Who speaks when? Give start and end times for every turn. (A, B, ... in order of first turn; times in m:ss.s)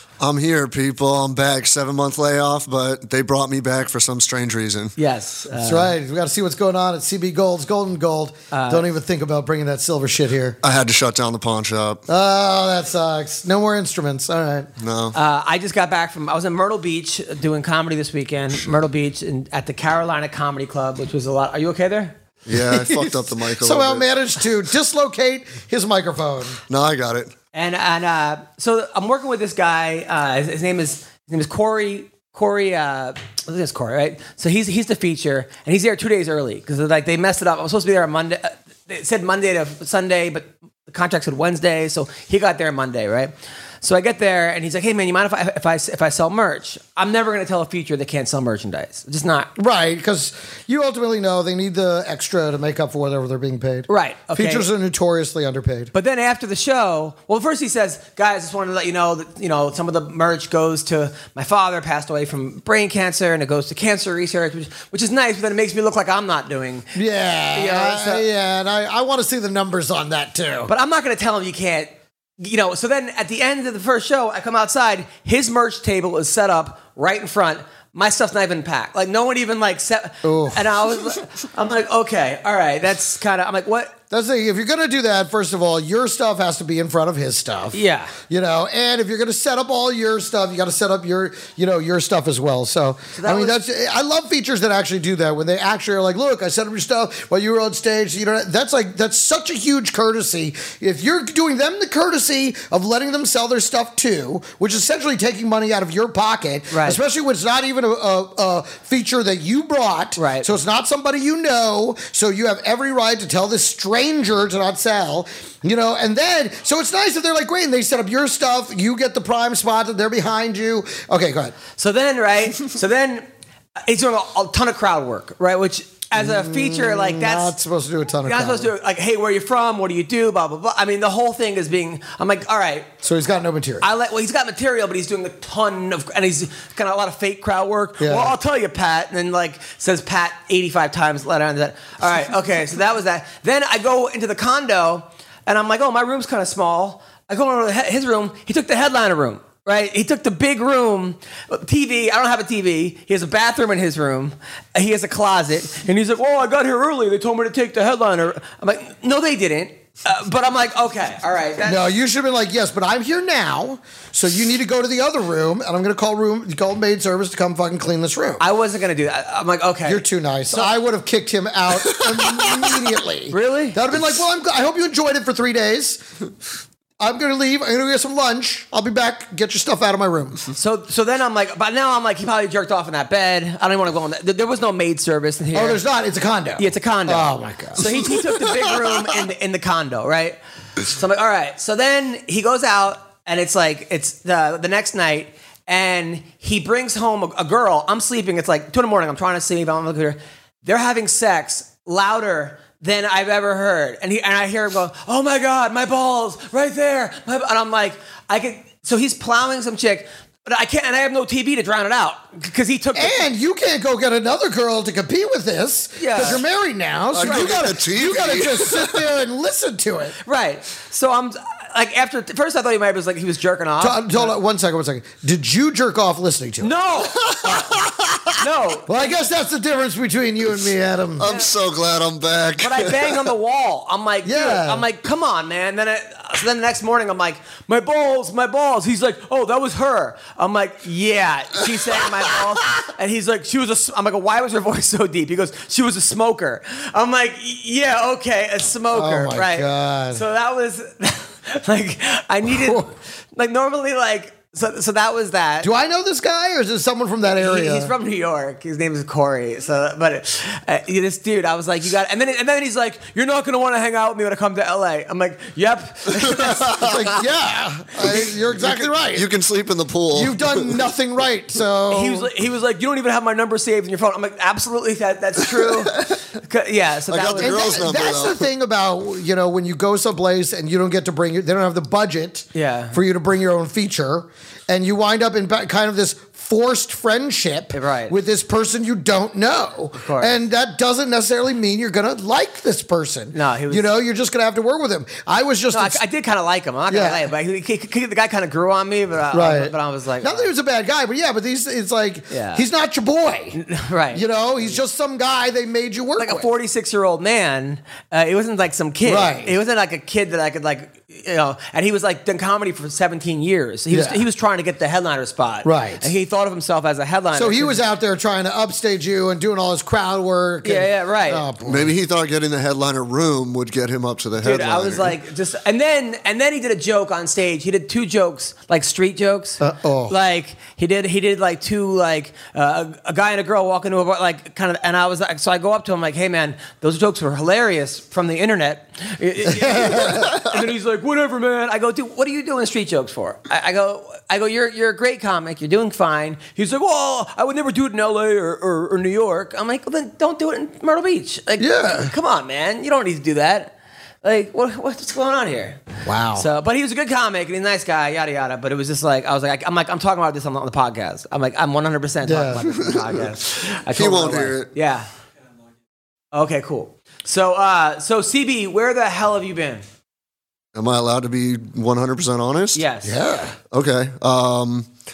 0:00.2-0:05.0 A
0:05.0-0:05.9 B
0:05.6-0:10.6 C
0:08.5-0:08.9 B
0:10.6-0:12.0 A
0:12.1-0:14.7 C
0:14.8-0:15.2 A
0:15.1-0:22.2 B
0:22.5-0:24.0 A
0:22.5-0:26.6 C
0:26.7-0:27.3 A
0:27.5-0:49.5 B
0:49.6-0:55.9 C
0:53.9-0:54.7 B
0:55.9-1:06.9 B
1:07.0-1:10.7 C
1:07.5-1:08.2 B
1:10.7-1:24.0 B
1:20.2-1:20.7 C
1:24.1-1:27.8 C
1:27.7-1:28.2 B
1:28.3-2:01.6 C
1:33.2-1:33.6 B
1:46.7-1:47.0 B
1:50.2-1:50.5 B
2:01.8-2:03.2 B
2:03.8-2:07.5 B
2:06.2-2:08.7 C
2:08.2-2:12.9 B
2:13.0-2:13.9 C
2:13.8-2:41.8 B
2:18.0-2:18.3 C
2:41.6-2:48.4 C
2:48.4-2:50.7 B
2:49.9-2:56.0 C
2:53.3-2:53.8 B
2:57.0-3:00.4 C
3:00.6-3:05.8 B
3:05.5-3:07.9 C
3:06.6-3:33.2 B
3:33.0-3:40.2 C
3:36.0-3:36.4 B
3:37.1-3:39.0 A
3:37.2-3:37.6 B
3:40.2-3:44.3 B
3:43.8-3:46.7 C
3:46.6-3:47.5 B
3:47.3-3:48.0 A
3:47.4-3:47.8 C
3:48.4-3:49.1 B
3:48.9-3:51.3 C
3:51.2-3:53.2 A
3:51.2-3:51.5 B
3:52.6-4:15.7 B
3:54.2-3:54.9 C
4:08.9-4:10.2 C
4:12.5-4:12.9 C
4:15.6-4:17.9 C
4:17.4-4:27.2 B
4:26.6-4:29.3 C
4:28.1-4:30.8 A
4:30.1-4:32.3 C
4:31.9-4:37.9 B
4:37.1-4:38.4 A
4:37.4-4:56.0 C
4:42.6-4:43.0 B
4:47.7-4:48.2 B
4:50.0-4:50.3 B
4:53.3-4:54.0 B
4:55.7-5:00.5 B
4:56.9-4:57.3 C
4:59.3-5:03.6 C
5:02.3-5:02.6 B
5:03.5-5:04.2 B
5:04.1-5:06.5 C
5:06.2-5:17.8 B
5:09.0-5:09.6 C
5:13.9-5:14.3 C
5:15.6-5:16.1 C
5:17.3-5:21.9 C
5:20.6-5:21.5 B
5:21.6-5:25.1 A
5:24.4-5:55.8 B
5:29.6-5:30.2 C
5:39.5-5:40.4 C
5:51.6-5:52.1 C
5:56.0-5:56.5 C
5:56.4-6:05.1 B
6:02.2-6:02.9 C
6:02.8-6:04.7 A
6:06.3-6:09.8 B
6:10.8-6:12.8 A
6:12.8-6:13.2 B
6:13.0-6:13.6 C
6:13.7-6:14.9 A